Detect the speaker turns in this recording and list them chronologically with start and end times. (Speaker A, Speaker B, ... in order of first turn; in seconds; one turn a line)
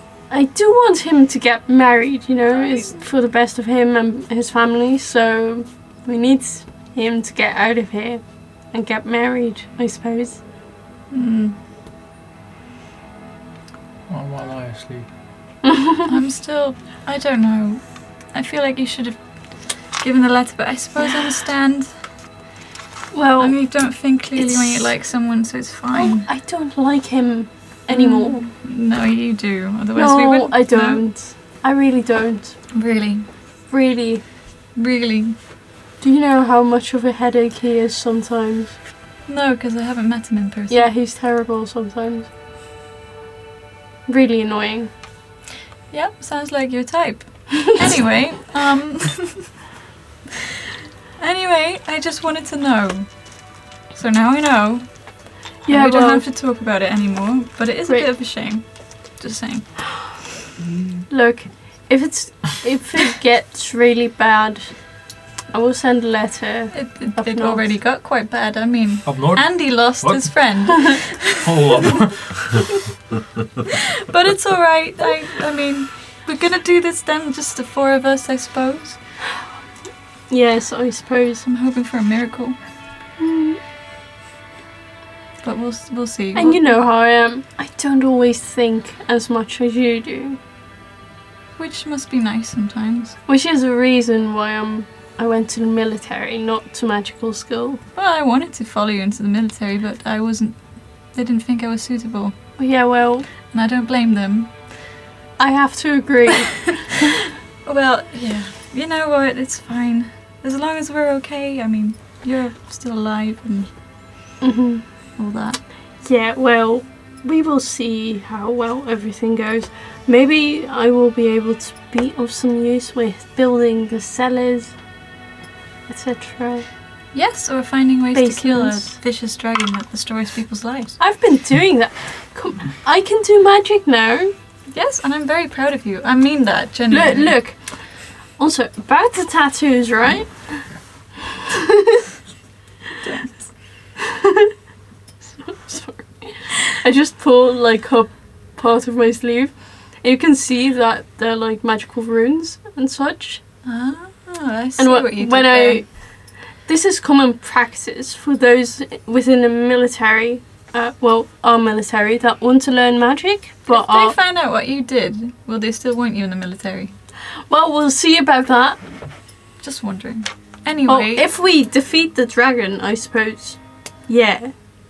Speaker A: 0.3-10.4
Speaker B: 11.1-11.6
Speaker C: 14.1-15.1
Speaker A: 15.6-16.1
Speaker B: 16.1-17.8
Speaker B: 18.3-19.2
Speaker B: 19.9-21.9
Speaker A: 23.1-23.6
Speaker B: 23.4-26.2
Speaker A: 24.4-24.9
Speaker A: 25.9-28.4
Speaker B: 27.9-31.0
Speaker A: 29.9-32.5
Speaker B: 32.7-33.2
Speaker A: 33.7-34.2
Speaker B: 34.8-35.4
Speaker A: 36.0-38.8
Speaker B: 39.3-40.9
Speaker A: 40.7-42.3
Speaker A: 44.1-44.9
Speaker B: 45.9-49.5
Speaker A: 47.5-47.9
Speaker B: 51.2-53.1
Speaker B: 53.9-54.8
Speaker A: 55.6-56.2
Speaker B: 55.7-58.6
Speaker B: 59.1-59.7
Speaker A: 61.1-64.8
Speaker A: 65.5-67.6
Speaker B: 66.7-71.9
Speaker C: 69.0-70.3
Speaker C: 71.3-72.4
Speaker B: 72.4-72.7
Speaker B: 73.6-79.0
Speaker A: 80.3-81.4
Speaker B: 81.4-82.5
Speaker A: 83.2-83.6
Speaker B: 85.4-86.6
Speaker A: 86.3-90.4
Speaker B: 91.6-93.2
Speaker A: 93.3-97.8
Speaker B: 98.0-100.5
Speaker B: 101.1-102.3
Speaker A: 102.6-103.2
Speaker B: 103.5-104.5
Speaker A: 105.4-107.1
Speaker B: 107.7-113.7
Speaker A: 114.4-114.8
Speaker B: 115.2-115.6
Speaker A: 116.0-124.7
Speaker A: 125.9-126.7
Speaker B: 127.1-131.0
Speaker A: 128.1-128.9
Speaker A: 131.0-134.3
Speaker B: 134.7-137.3
Speaker A: 136.9-137.6
Speaker A: 138.4-140.6
Speaker A: 141.2-142.0
Speaker B: 143.0-143.4
Speaker A: 144.0-144.5
Speaker A: 145.4-153.4
Speaker B: 153.6-155.8
Speaker A: 154.8-155.9
Speaker A: 156.7-164.2
Speaker B: 163.7-166.9
Speaker A: 167.5-168.8
Speaker B: 169.6-171.2
Speaker A: 170.9-174.5